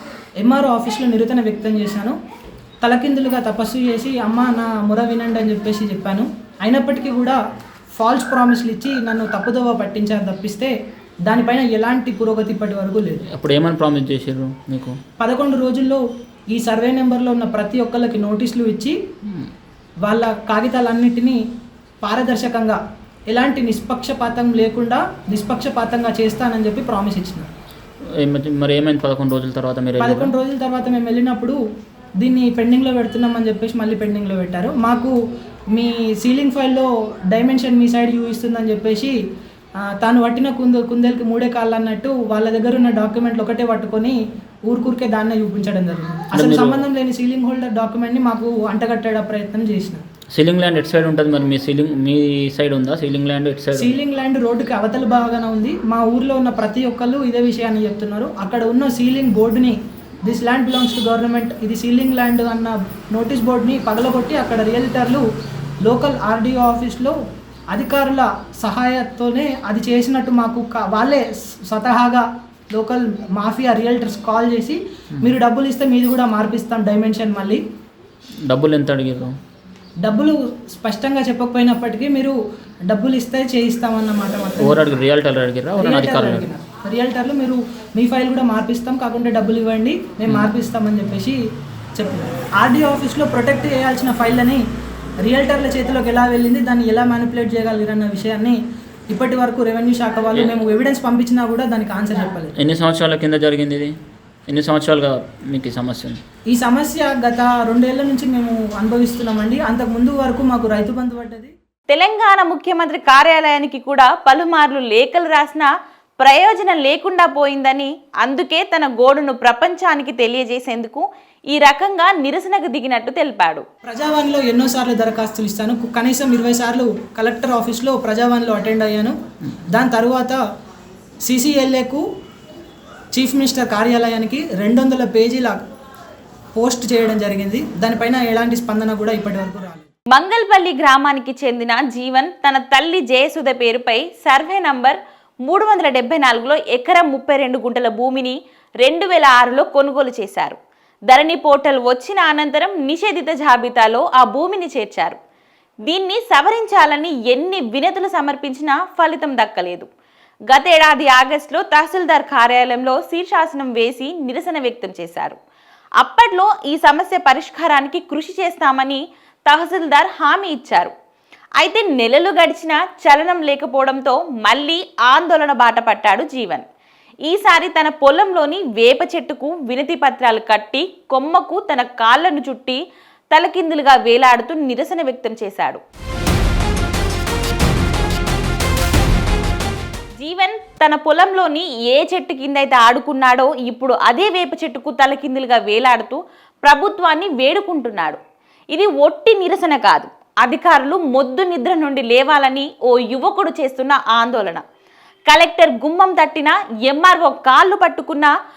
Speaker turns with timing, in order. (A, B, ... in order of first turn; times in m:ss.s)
0:00.4-0:02.2 A
0:02.8-0:07.4 A
0:08.0-0:10.7 A
0:11.3-0:13.3 A
0:13.3-0:15.0 B
0:15.2-0:16.0 A
0:16.5-0:19.0 A
0:20.0-0:21.4 A
0:22.0-0:22.8 A
0:23.3-0:27.5 A
0:28.2-0:30.3 B
0:30.0-0:31.6 A
0:32.2-0:35.1 A
0:35.7-0:39.2 A
0:39.9-0:44.2 A
0:44.7-0:50.0 A
0:46.3-0:46.9 B
0:50.4-0:53.9 B
0:53.7-1:05.2 A
1:05.8-1:07.2 A
1:07.7-1:17.6 A
1:18.5-1:19.3 B
1:20.0-1:22.4 A
1:22.9-1:24.8 A
1:24.6-1:26.5 B
1:25.8-1:31.4 A
1:32.0-1:34.6 A
1:35.2-1:38.6 A
1:39.1-1:42.5 A
1:42.6-1:43.9 B
1:44.5-1:46.2 B
1:46.5-1:51.5 A
1:51.9-1:55.7 C
1:56.2-2:03.6 C
2:03.8-2:09.2 A
2:09.7-2:10.4 A
2:11.2-2:12.0 A
2:13.1-2:15.6 A
2:16.6-2:19.9 A
2:20.1-2:30.6 C
2:31.1-2:35.2 C
2:35.9-2:39.9 C
2:40.5-2:45.4 C
2:46.0-2:50.9 C
2:51.6-2:56.6 C
2:57.3-3:02.8 C
3:03.3-3:05.8 C
3:10.2-3:18.2 C
3:18.7-3:24.6 C
3:25.3-3:28.3 C